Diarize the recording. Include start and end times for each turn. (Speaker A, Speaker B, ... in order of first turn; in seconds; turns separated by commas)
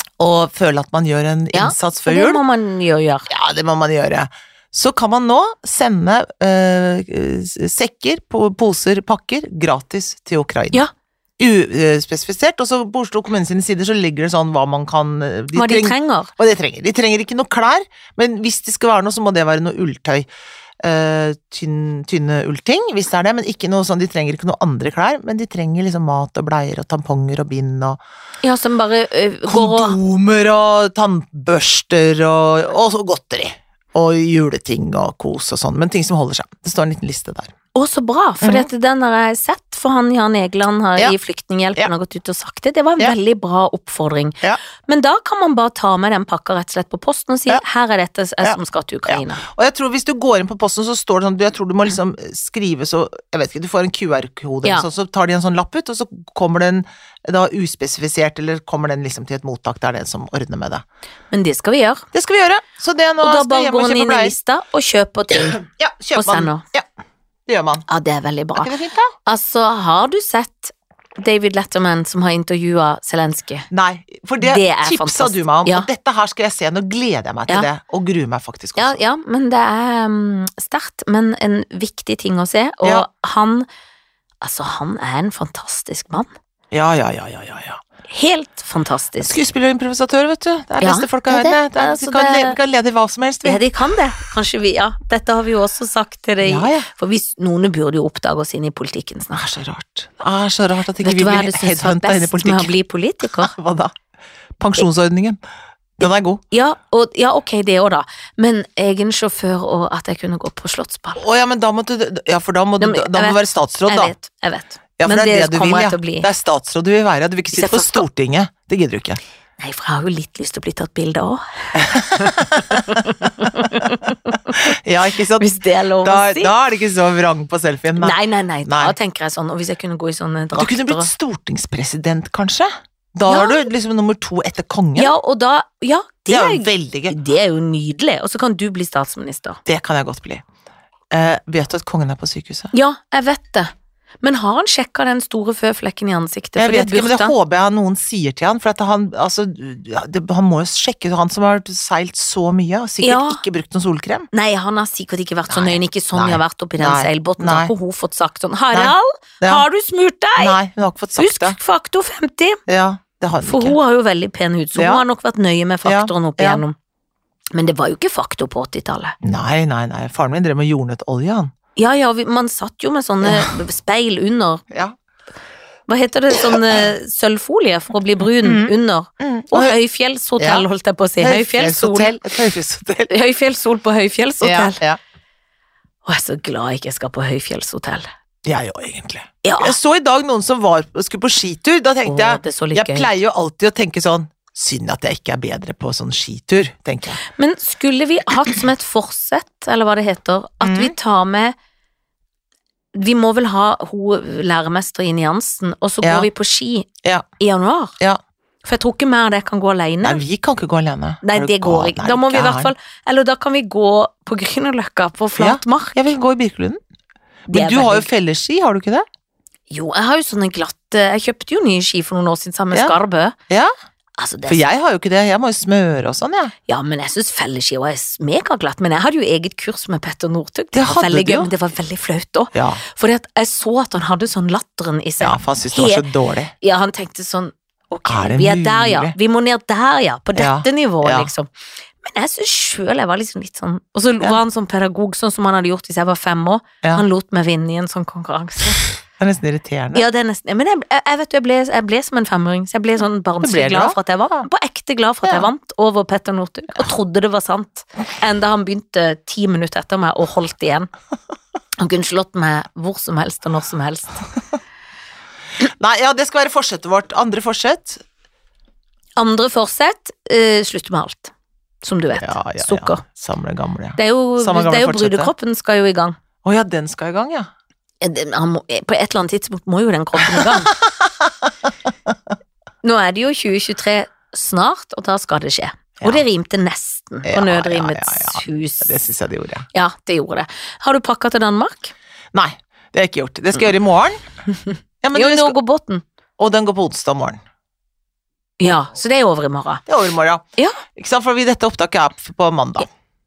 Speaker A: 0.2-2.4, Speaker B: 1.5-3.3, Speaker A: 3.3-10.8, Speaker A: 11.4-20.3, Speaker B: 15.5-16.3, Speaker A: 20.8-28.0, Speaker B: 28.4-30.0, Speaker A: 29.5-37.5, Speaker B: 37.7-49.4, Speaker A: 38.4-38.7, Speaker A: 48.4-60.8, Speaker B: 61.3-62.1, Speaker A: 62.1-64.3, Speaker B: 63.2-65.6, Speaker A: 65.3-66.9, Speaker B: 66.2-66.6, Speaker A: 67.5-67.8, Speaker B: 67.9-68.7, Speaker A: 68.6-69.1, Speaker B: 69.3-73.7, Speaker A: 73.7-79.0, Speaker B: 74.4-75.9, Speaker B: 78.8-83.7, Speaker B: 84.4-86.3, Speaker A: 86.7-87.8, Speaker B: 88.1-89.4, Speaker A: 89.2-93.6, Speaker B: 90.8-92.6, Speaker B: 93.4-99.5, Speaker A: 96.4-96.9, Speaker A: 99.3-103.9, Speaker B: 101.0-103.5, Speaker A: 104.6-105.4, Speaker A: 106.0-106.4, Speaker B: 106.5-111.2, Speaker A: 111.2-114.1, Speaker B: 112.8-116.3, Speaker A: 115.0-119.2, Speaker B: 117.5-118.0, Speaker B: 119.6-124.6, Speaker A: 121.8-123.9, Speaker A: 124.5-128.9, Speaker B: 125.4-126.5, Speaker B: 128.0-131.1, Speaker A: 130.6-135.2, Speaker B: 133.3-133.7, Speaker B: 135.0-139.6, Speaker A: 136.3-137.2, Speaker A: 139.7-140.4, Speaker A: 141.1-142.7, Speaker B: 142.7-147.3, Speaker A: 146.6-154.3, Speaker B: 153.0-153.4, Speaker B: 154.3-160.6, Speaker A: 155.5-157.7, Speaker A: 158.7-159.7, Speaker A: 160.4-161.6, Speaker B: 161.2-162.6, Speaker A: 162.7-163.8, Speaker B: 163.4-166.8, Speaker A: 164.8-165.1, Speaker A: 165.8-166.6, Speaker B: 167.5-169.2, Speaker A: 169.2-171.5, Speaker B: 171.8-174.6, Speaker A: 173.2-173.5, Speaker B: 175.9-182.2, Speaker A: 176.4-176.8, Speaker A: 178.4-179.8, Speaker A: 180.4-180.7, Speaker A: 181.2-183.1, Speaker B: 183.1-184.8, Speaker A: 184.4-185.0, Speaker B: 186.1-188.1, Speaker A: 188.4-197.2, Speaker B: 189.4-189.8, Speaker B: 192.1-193.1, Speaker B: 197.3-201.6, Speaker A: 200.6-200.9, Speaker B: 202.9-207.9, Speaker A: 206.0-206.3, Speaker B: 208.6-210.2, Speaker A: 210.0-212.7, Speaker B: 211.2-216.0, Speaker A: 215.4-216.8, Speaker A: 217.5-219.1, Speaker B: 217.5-218.1, Speaker B: 219.7-223.4, Speaker B: 224.2-224.7, Speaker A: 224.5-226.5, Speaker B: 226.7-236.1, Speaker A: 230.7-231.5, Speaker A: 232.5-232.8, Speaker A: 235.2-236.5, Speaker B: 236.6-241.5, Speaker A: 238.1-239.2, Speaker A: 240.3-241.3, Speaker B: 242.0-248.9, Speaker A: 249.2-250.1, Speaker B: 249.9-260.9, Speaker A: 253.4-254.4, Speaker A: 255.2-255.5, Speaker B: 261.8-264.1, Speaker A: 265.6-268.0, Speaker B: 269.2-271.3, Speaker B: 271.8-273.0, Speaker A: 272.2-275.3, Speaker B: 274.0-276.2, Speaker A: 276.4-277.5, Speaker B: 278.0-280.8, Speaker A: 280.2-282.2, Speaker B: 282.8-289.0, Speaker A: 287.2-289.7, Speaker B: 289.7-291.9, Speaker A: 292.3-294.2, Speaker A: 295.0-295.6, Speaker B: 295.1-296.0, Speaker A: 296.4-297.4, Speaker B: 298.6-299.8, Speaker A: 299.9-302.9, Speaker B: 300.6-300.8